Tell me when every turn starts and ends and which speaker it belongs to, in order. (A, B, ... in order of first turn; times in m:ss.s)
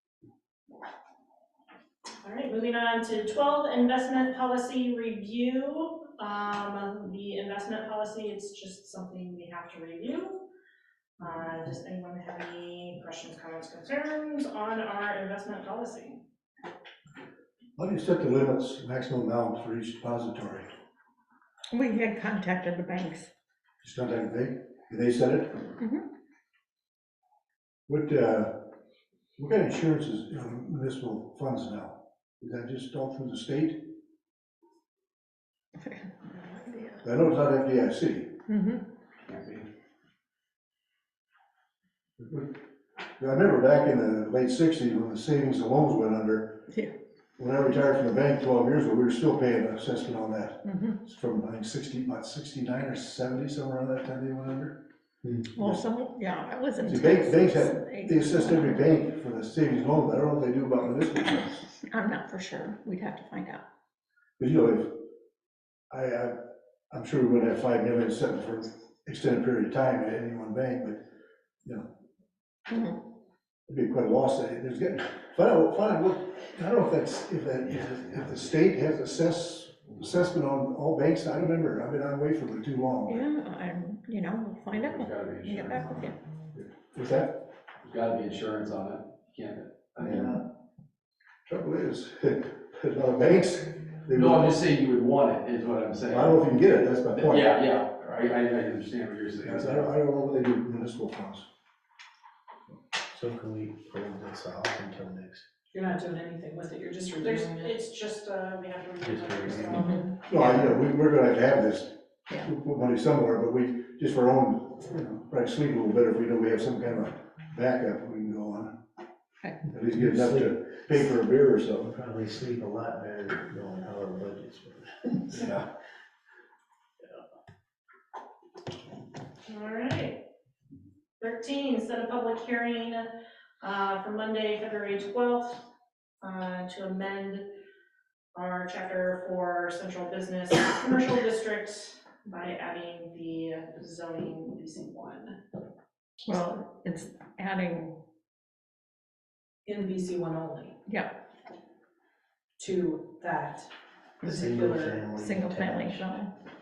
0:02.2-0:10.4 A
0:11.2-0:16.2 A
0:17.8-0:20.6 B
0:21.7-0:23.3 C
0:23.8-0:25.6 B
0:25.8-0:26.0 C
0:27.9-0:28.5 B
0:29.4-0:33.8 B
0:35.8-0:36.1 C
0:36.6-0:37.0 C
0:37.0-0:38.4 B
0:38.5-0:38.8 C
0:39.3-0:39.6 D
0:42.2-0:42.5 B
0:43.2-0:46.6 B
0:47.4-0:54.8 B
0:50.6-0:51.0 C
0:55.2-0:55.5 E
0:55.5-0:58.8 C
0:55.6-0:55.8 B
0:56.8-1:01.7 B
1:01.9-1:03.6 C
1:04.4-1:05.0 B
1:05.9-1:06.3 B
1:06.9-1:11.0 B
1:12.7-1:13.0 C
1:13.7-1:23.3 B
1:17.6-1:18.6 D
1:23.1-1:26.2 C
1:24.7-1:26.2 D
1:26.6-1:27.4 B
1:27.8-1:30.4 D
1:30.0-1:30.4 B
1:31.5-1:34.6 B
1:34.1-1:39.9 D
1:36.1-1:37.6 B
1:39.4-1:41.4 B
1:43.1-1:45.4 E
1:45.7-1:47.8 F
1:47.2-1:50.1 A
1:49.0-1:49.8 E
1:49.7-1:50.0 C
1:50.2-1:58.7 B
1:59.7-2:01.9 B
1:59.7-2:01.1 E
2:01.8-2:05.5 E
2:05.3-2:05.6 B
2:09.4-2:10.2 A
2:11.2-2:13.1 A
2:13.6-2:15.6 A
2:16.2-2:17.5 A
2:18.3-2:25.4 A
2:26.2-2:28.0 C
2:29.6-2:30.7 F
2:30.8-2:31.1 C
2:32.6-2:33.7 F
2:34.2-2:35.2 F
2:34.2-2:36.0 E
2:35.2-2:36.4 C